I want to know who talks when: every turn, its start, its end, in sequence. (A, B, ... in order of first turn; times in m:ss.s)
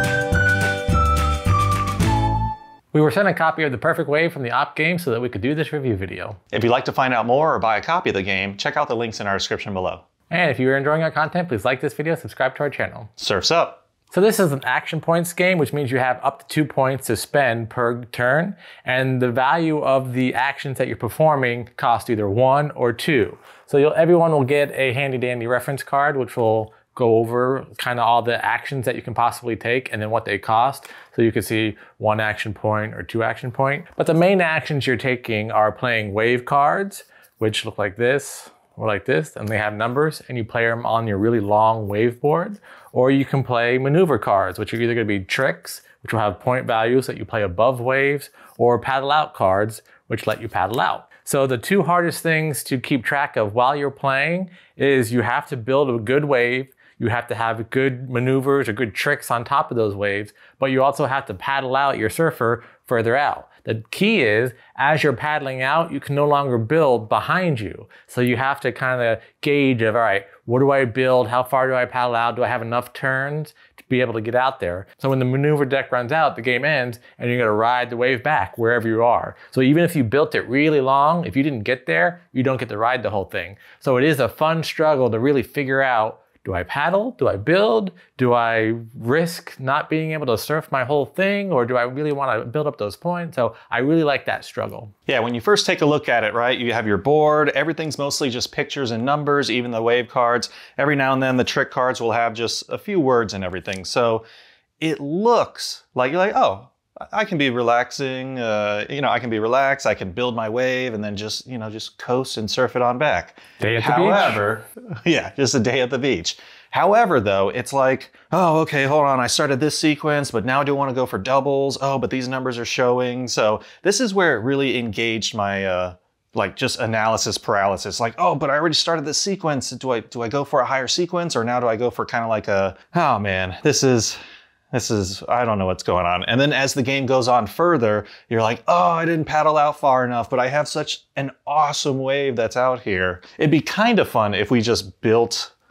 0:02.9-0:06.4 A
0:06.5-0:10.0 B
0:10.3-0:13.1 A
0:13.2-0:13.8 B
0:14.1-1:34.9 A
1:35.1-1:44.2 B
1:44.8-2:14.2 B
1:53.6-1:54.4 A
2:14.7-2:25.5 B